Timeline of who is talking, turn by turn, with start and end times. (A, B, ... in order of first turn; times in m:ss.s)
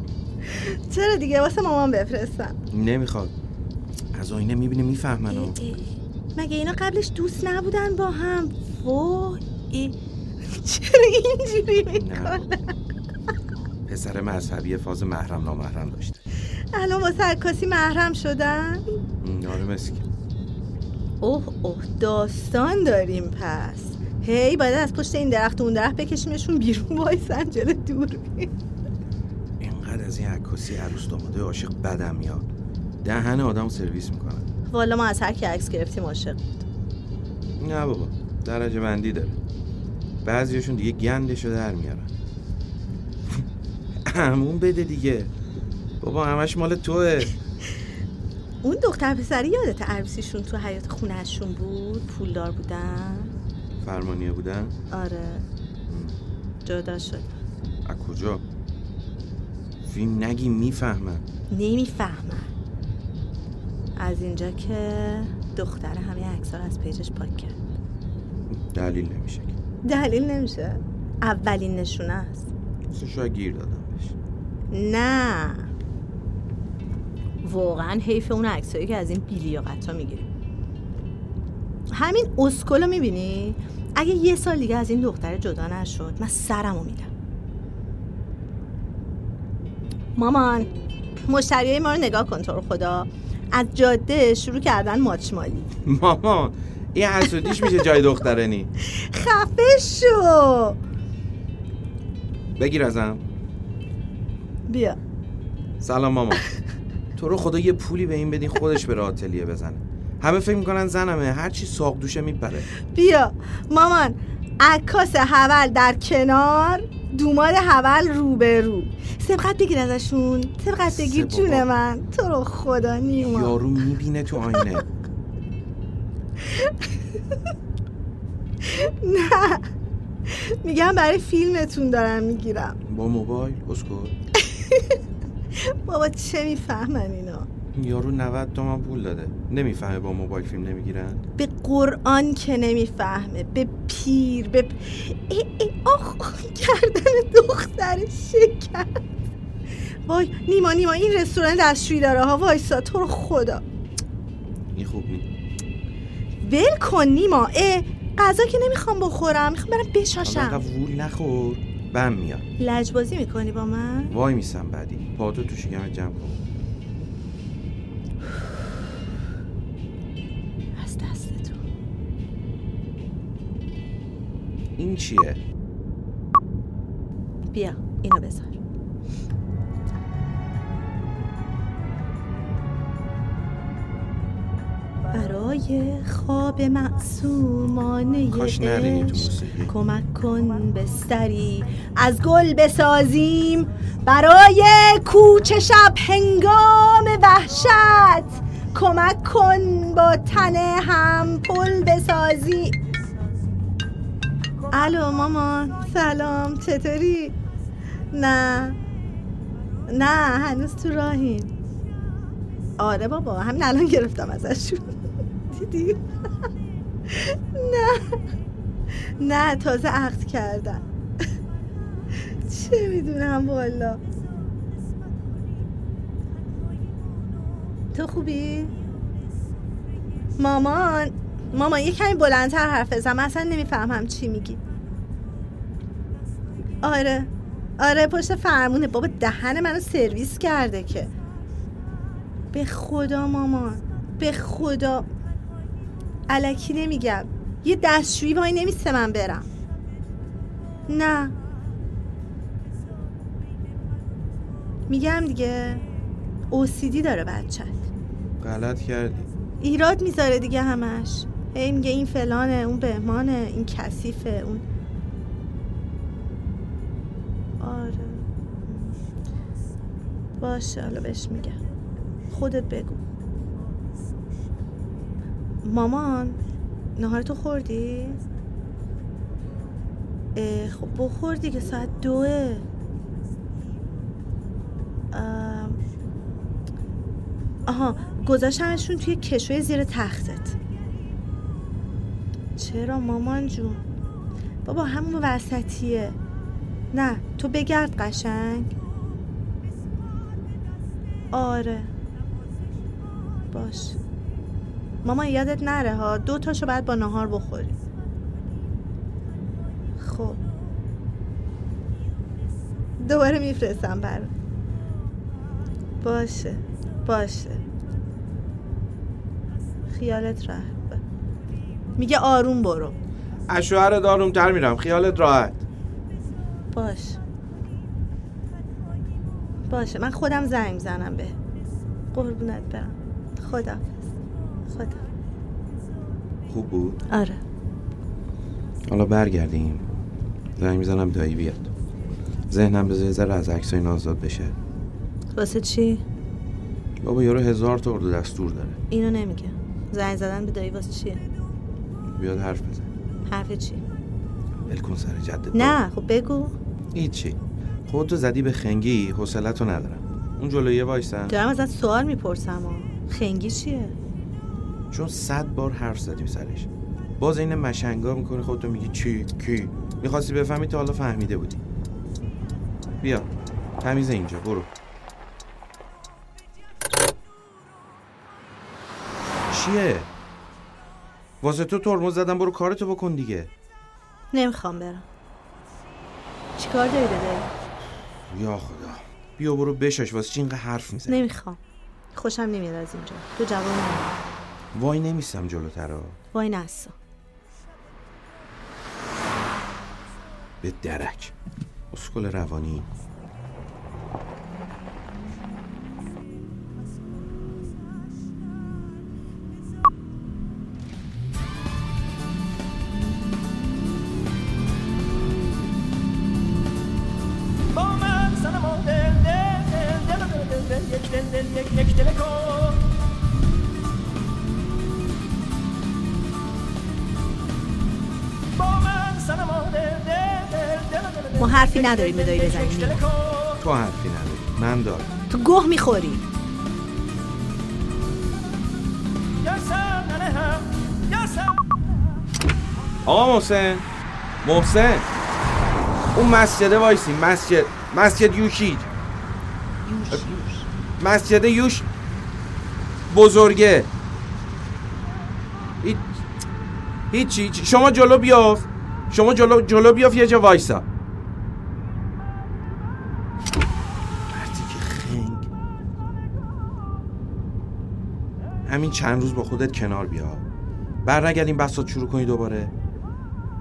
0:00.4-0:02.6 A
0:02.7-0:03.3 B
0:04.1-0:05.6 B
0:05.3-0:12.7 A
0:11.9-0:12.5 B
0:13.8-0:16.2 B
0:16.7-0:18.9 A
0:19.2-0:20.0 B
0:21.2-0:28.5 A
0:29.6-0:32.4 B
0:33.0-0:34.4 B
0:34.7-0:36.6 A
0:37.6-0:39.4 B
0:40.2-0:42.1 B
0:44.0-0:45.3 B
0:46.0-0:47.3 B
0:48.6-0:53.3 A
0:53.8-0:54.8 B
0:54.9-0:55.4 A
0:55.9-0:56.2 B
0:56.6-0:57.2 A
0:57.8-0:58.4 B
0:59.8-1:01.2 B
1:01.5-1:02.5 A
1:04.0-1:07.5 A
1:08.5-1:09.5 B
1:09.8-1:12.5 A
1:12.9-1:14.1 B
1:14.7-1:15.7 A
1:17.4-1:20.3 A
1:21.9-1:27.1 A
1:30.2-1:35.7 A
1:35.8-1:38.7 B
1:37.4-1:37.8 A
1:38.8-1:40.8 A
1:42.5-1:43.2 B
1:44.7-1:45.0 A
1:45.8-1:46.4 B
1:47.2-1:52.7 B
1:52.8-2:03.6 A
2:00.9-2:01.7 B
2:03.2-2:04.8 B
2:08.6-2:09.7 A
2:10.3-2:12.8 A
2:12.9-2:14.1 B
2:14.4-2:15.0 A
2:15.6-2:17.5 A
2:17.7-2:21.2 B
2:21.4-2:29.0 A
2:30.1-2:33.6 A
2:34.7-2:35.2 B
2:36.4-2:40.6 A
2:40.2-2:42.4 B
2:42.6-2:44.1 A
2:44.1-2:46.4 B
2:50.8-2:51.6 A
2:54.8-2:55.4 B
2:57.5-2:58.6 A
3:05.1-3:22.8 A
3:08.3-3:09.7 B
3:24.7-3:27.4 A
3:28.1-3:28.8 A
3:29.9-3:31.5 A
3:32.8-3:34.9 A
3:35.5-3:36.5 A
3:37.1-3:38.2 A
3:39.2-3:40.8 A
3:42.4-3:44.0 A
3:47.9-3:48.7 A
3:50.4-3:54.6 A
3:56.8-4:01.1 A
4:02.5-4:05.1 A
4:06.3-4:09.5 A
4:10.9-4:11.3 A
4:14.9-4:15.8 A
4:16.5-4:17.9 A
4:18.4-4:19.3 B
4:19.6-4:24.6 A
4:27.6-4:28.9 A
4:30.4-4:31.6 A
4:32.3-4:33.0 A
4:35.6-4:36.4 A
4:37.0-4:38.2 A
4:40.3-4:42.6 A
4:45.1-4:45.8 A
4:47.7-4:50.6 A
4:52.6-4:53.8 A
4:54.6-4:56.2 A
4:56.9-4:58.7 A
5:01.3-5:01.9 A
5:03.5-5:04.0 A
5:05.0-5:07.8 A
5:10.0-5:10.4 A
5:13.0-5:14.3 A
5:16.0-5:17.6 A
5:19.9-5:21.0 A
5:22.0-5:23.0 A
5:23.5-5:25.6 B
5:26.7-5:27.2 A
5:29.7-5:31.4 A
5:32.1-5:34.0 A
5:34.7-5:35.0 A
5:36.5-5:37.0 B
5:37.1-5:37.4 A
5:38.9-5:39.8 B
5:40.6-5:41.7 B
5:42.5-5:44.5 B
5:45.3-5:46.0 A
5:47.0-5:48.8 B
5:48.9-5:51.2 A
5:52.1-5:52.9 B
5:53.3-5:53.8 A
5:54.7-5:55.8 B
5:55.5-5:56.5 A
5:56.9-6:01.4 B
6:01.3-6:03.9 A
6:04.9-6:11.6 B
6:13.0-6:13.3 B
6:13.8-6:14.7 B
6:19.5-6:20.1 B
6:21.4-6:23.5 B
6:24.3-6:25.0 A
6:26.6-6:27.5 A
6:28.3-6:31.2 B
6:31.1-6:31.6 A
6:32.1-6:34.2 A
6:34.7-6:36.2 B
6:36.3-6:36.9 A
6:40.6-6:41.3 B
6:41.9-6:42.9 B
6:57.7-7:02.9 C
7:08.5-7:13.6 C
7:11.4-7:13.0 A
7:13.6-7:15.1 B
7:15.3-7:16.2 A
7:19.4-7:21.6 C
7:23.0-7:23.8 B
7:24.4-7:25.1 B
7:26.1-7:28.9 B
7:29.8-7:30.7 A
7:31.0-7:31.9 B
7:33.1-7:33.9 B
7:35.8-7:36.1 B
7:37.1-7:40.8 B
7:44.3-7:45.5 B
7:48.6-7:50.4 B
7:51.0-7:52.7 B